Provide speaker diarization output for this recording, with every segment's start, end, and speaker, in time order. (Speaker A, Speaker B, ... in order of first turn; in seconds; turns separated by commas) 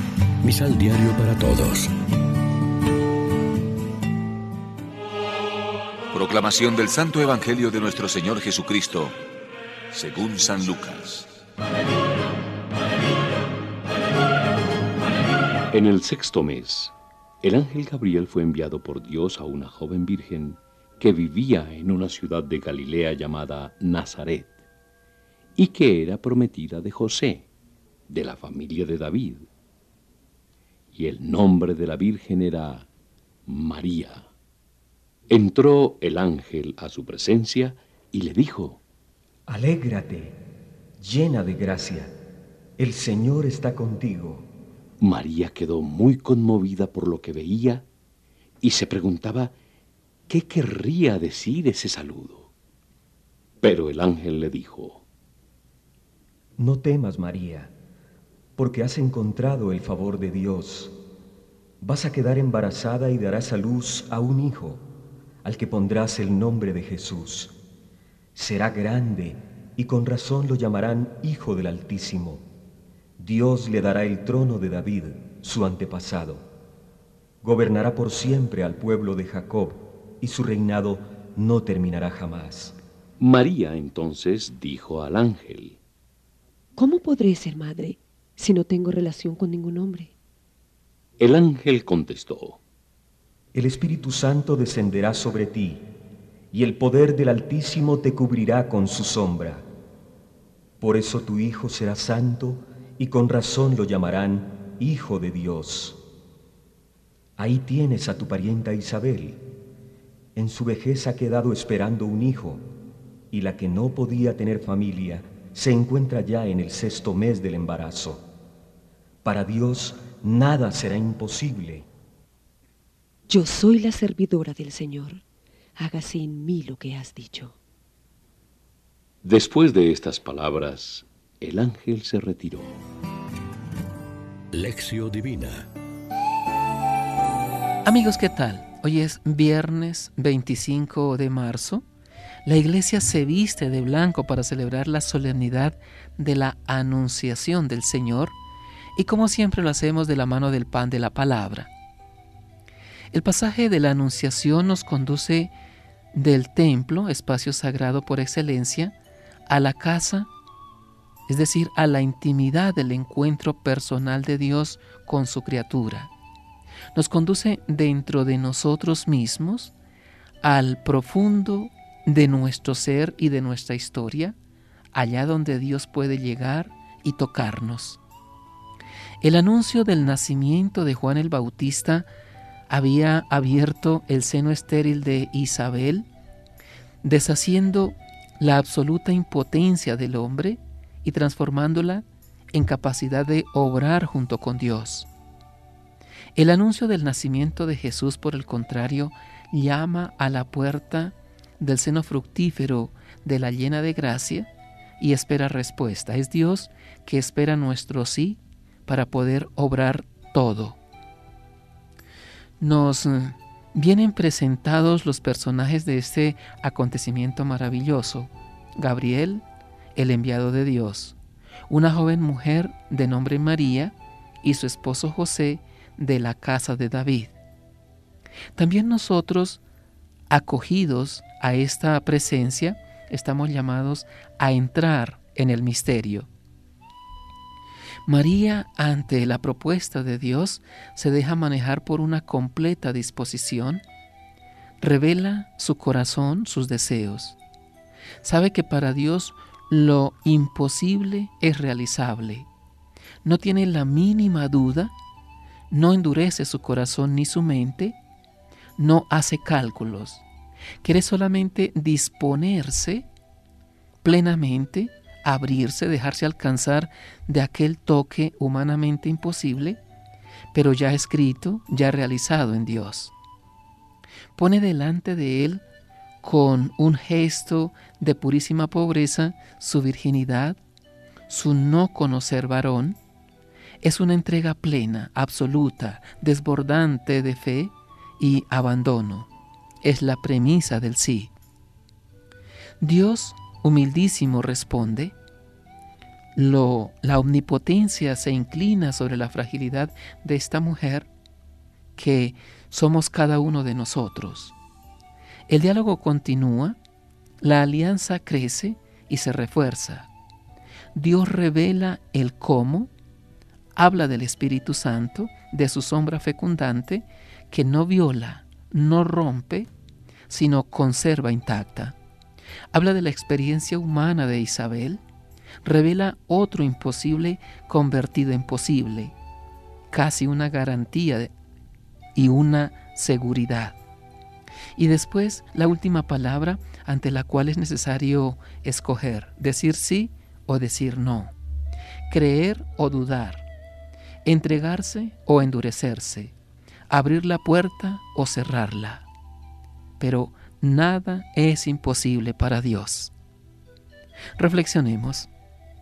Speaker A: 0.4-1.9, Speaker B: 6.1-9.1, Speaker B: 9.9-11.2, Speaker C: 15.7-24.6, Speaker C: 25.6-27.5, Speaker C: 28.1-29.5, Speaker C: 30.9-32.9, Speaker C: 33.5-34.3, Speaker C: 35.3-38.8, Speaker D: 39.5-40.4, Speaker D: 41.0-42.1, Speaker D: 42.8-44.5, Speaker C: 45.0-47.9, Speaker C: 48.6-49.5, Speaker C: 50.3-52.5, Speaker C: 53.6-55.0, Speaker D: 56.6-57.7, Speaker D: 58.6-60.9, Speaker D: 61.8-64.8, Speaker D: 65.4-67.5, Speaker D: 68.3-72.4, Speaker D: 73.2-76.5, Speaker D: 77.4-82.8, Speaker C: 83.2-85.8, Speaker E: 86.8-90.1, Speaker C: 91.2-92.6, Speaker D: 93.5-95.9, Speaker D: 96.5-99.7, Speaker D: 100.8-106.0, Speaker D: 107.4-109.4, Speaker D: 110.4-112.7, Speaker D: 113.3-118.2, Speaker D: 119.2-121.9, Speaker E: 123.3-125.2, Speaker E: 125.8-127.5, Speaker C: 129.2-132.7, Speaker A: 134.5-135.7, Speaker F: 137.8-141.8, Speaker F: 142.4-148.4, Speaker F: 148.9-151.7, Speaker F: 153.1-155.5, Speaker F: 156.1-158.9, Speaker F: 159.5-160.3, Speaker F: 161.3-166.1, Speaker F: 166.9-169.7, Speaker F: 170.4-174.3, Speaker F: 174.9-178.0, Speaker F: 179.2-182.1, Speaker F: 182.7-186.1, Speaker F: 187.0-195.1, Speaker F: 196.3-210.8, Speaker F: 212.6-219.4, Speaker F: 219.9-221.2, Speaker F: 221.7-227.3, Speaker F: 228.5-229.6, Speaker F: 230.3-236.3, Speaker F: 238.1-243.8, Speaker F: 244.8-247.4, Speaker F: 248.2-252.5, Speaker F: 253.2-254.9, Speaker F: 255.7-258.0, Speaker F: 258.8-260.2, Speaker F: 260.8-263.1, Speaker F: 264.0-269.8, Speaker F: 270.5-273.1, Speaker F: 274.3-275.6, Speaker F: 276.2-280.6, Speaker F: 281.3-283.0, Speaker F: 283.8-289.3, Speaker F: 289.8-291.3, Speaker F: 292.8-295.1, Speaker F: 296.3-301.1, Speaker F: 301.9-304.6, Speaker F: 305.5-306.8, Speaker F: 307.4-310.1, Speaker F: 310.9-312.9, Speaker F: 313.8-319.7, Speaker F: 320.3-321.9, Speaker F: 322.7-325.0, Speaker F: 325.6-329.1, Speaker F: 329.9-331.3, Speaker F: 332.1-333.8, Speaker F: 334.8-341.3, Speaker F: 342.1-343.4, Speaker F: 344.2-346.3, Speaker F: 346.9-349.1, Speaker F: 350.0-353.1, Speaker F: 354.4-355.3